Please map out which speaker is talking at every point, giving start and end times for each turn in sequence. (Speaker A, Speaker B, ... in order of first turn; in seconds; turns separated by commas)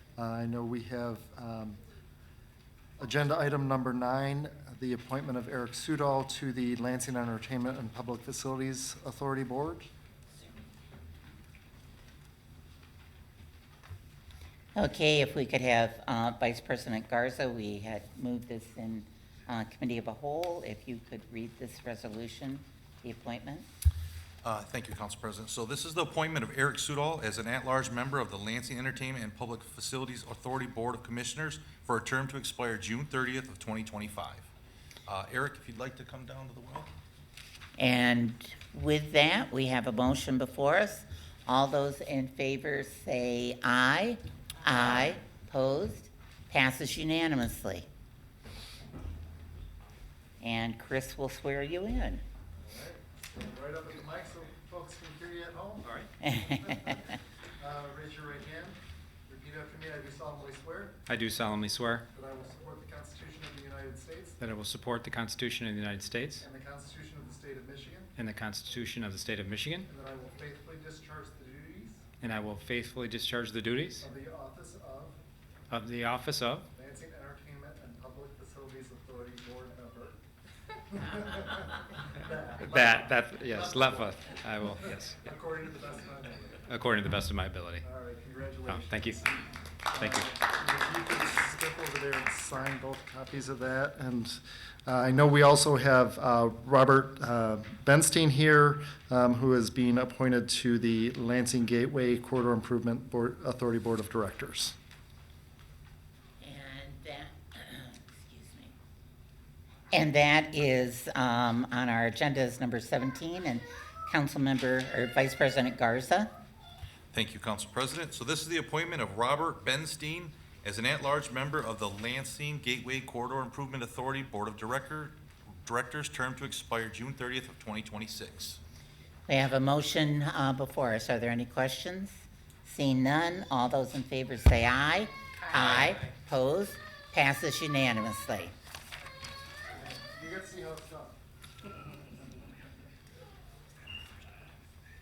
Speaker A: 0.2-1.8, Speaker A: 3.0-9.9, Speaker B: 14.7-23.6, Speaker C: 24.4-34.5, Speaker C: 35.1-36.9, Speaker B: 37.8-47.9, Speaker B: 50.4-52.2, Speaker A: 52.6-61.0, Speaker B: 56.2-57.0, Speaker D: 61.1-62.0, Speaker A: 62.1-64.4, Speaker D: 64.4-66.4, Speaker A: 66.4-68.1, Speaker D: 68.2-69.9, Speaker A: 69.9-72.0, Speaker D: 72.2-74.0, Speaker A: 74.0-75.2, Speaker D: 75.7-76.7, Speaker A: 76.7-80.2, Speaker A: 80.9-86.6, Speaker D: 82.6-85.2, Speaker D: 86.7-87.8, Speaker A: 87.8-104.8, Speaker D: 88.7-89.2, Speaker D: 89.9-90.3, Speaker B: 106.4-108.7, Speaker B: 109.9-116.3, Speaker C: 117.1-128.6, Speaker B: 129.3-138.5, Speaker A: 139.8-141.1